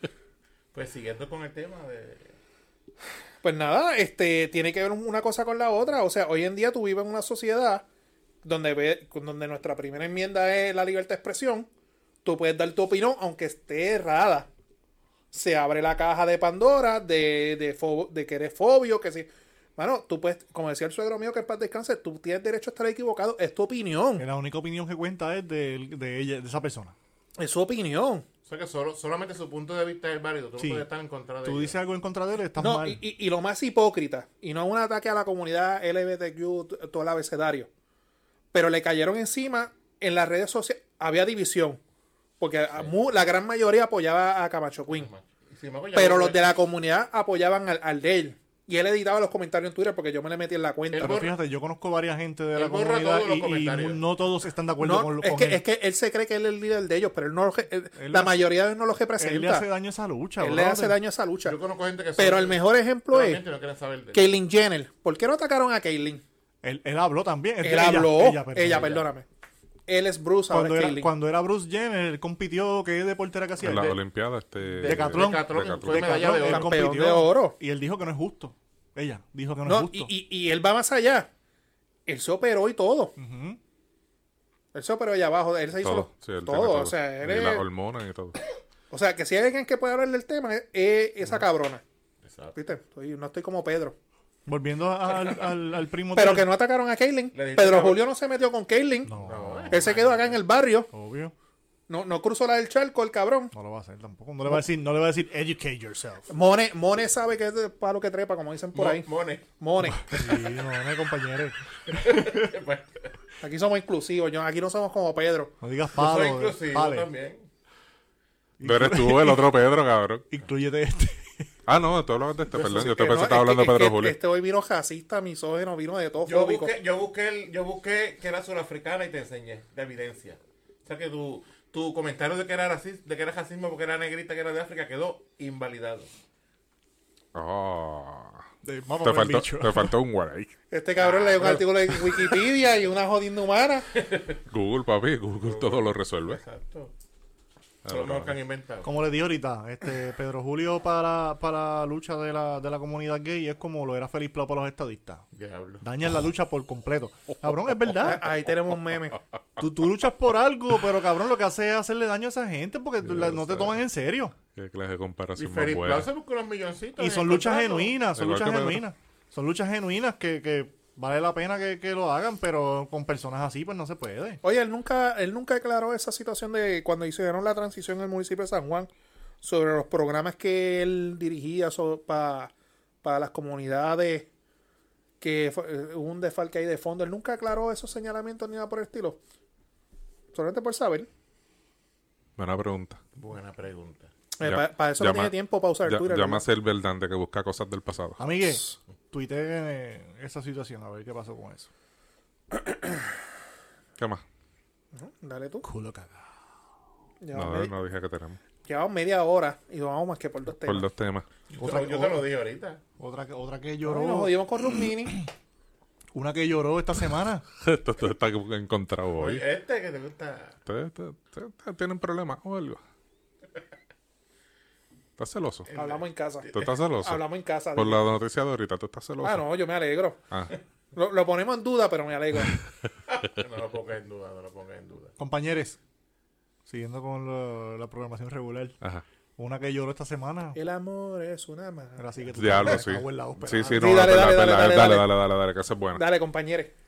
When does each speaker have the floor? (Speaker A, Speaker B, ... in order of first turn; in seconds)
Speaker A: 0.7-2.3, 28.4-31.8, 44.9-46.4, 50.9-51.4, 52.5-54.0, 61.4-64.2, 74.6-76.8, 92.2-92.5, 97.3-98.0, 99.2-100.4, 108.7-109.5, 111.9-113.1, 116.0-117.5, 122.5-122.9, 126.2-136.1, 141.0-142.3, 143.9-144.4, 145.4-146.9, 147.9-148.9, 155.3-155.8, 165.4-167.9, 193.2-194.1, 211.5-212.8, 219.2-220.6, 225.7-226.7, 233.1-235.1
Speaker B: 3.4-7.8, 8.4-11.7, 12.2-14.5, 15.3-24.2, 27.4-28.2, 32.6-37.7, 38.5-41.8, 42.4-45.1, 45.9-51.2, 54.8-59.7, 60.4-61.5, 62.2-63.4, 64.1-66.2, 67.6-69.2, 69.9-71.1, 76.3-77.6, 79.6-81.3, 82.0-83.1, 84.7-87.6, 88.9-91.8, 92.5-94.0, 96.1-99.1, 99.7-100.9, 101.9-103.5, 106.3-110.1, 113.4-115.5, 122.8-126.7, 140.7-143.9, 158.0-159.2, 174.4-178.9, 179.4-182.5, 183.0-184.3, 185.2-189.2, 190.3-191.1, 194.4-196.4, 204.9-205.7, 207.2-207.7, 208.6-210.9, 213.8-215.2, 225.7-228.0, 229.2-230.2, 230.9-232.5, 240.5-242.8, 243.7-245.1, 245.9-246.7
Speaker C: 24.2-26.9, 30.6-30.9, 31.4-33.0, 51.0-55.6, 58.0-58.4, 59.2-61.0, 66.6-69.0, 70.5-74.0, 74.8-80.1, 83.2-83.6, 94.5-96.5, 99.0-99.9, 100.9-101.3, 103.5-106.3, 110.0-112.5, 115.6-117.1, 118.6-119.5, 120.3-121.5, 138.6-139.9, 148.8-155.2, 155.8-158.3, 159.6-164.3, 167.0-174.4, 198.2-201.7, 205.6-206.3, 211.6-212.2, 213.0-214.3, 216.1-217.4, 235.2-235.8, 236.7-238.8, 239.4-240.6, 242.0-244.0
Speaker D: 73.6-76.4, 85.8-88.4, 118.6-120.2, 121.7-124.2, 137.3-138.4, 139.0-140.5, 144.5-146.4, 147.8-148.3, 163.1-163.7, 164.5-166.1, 168.1-168.8, 192.4-193.0, 194.4-198.2, 207.3-208.4, 210.6-211.2, 217.6-219.4, 220.7-222.8, 225.2-225.7, 226.5-227.2, 227.7-229.4, 242.3-246.0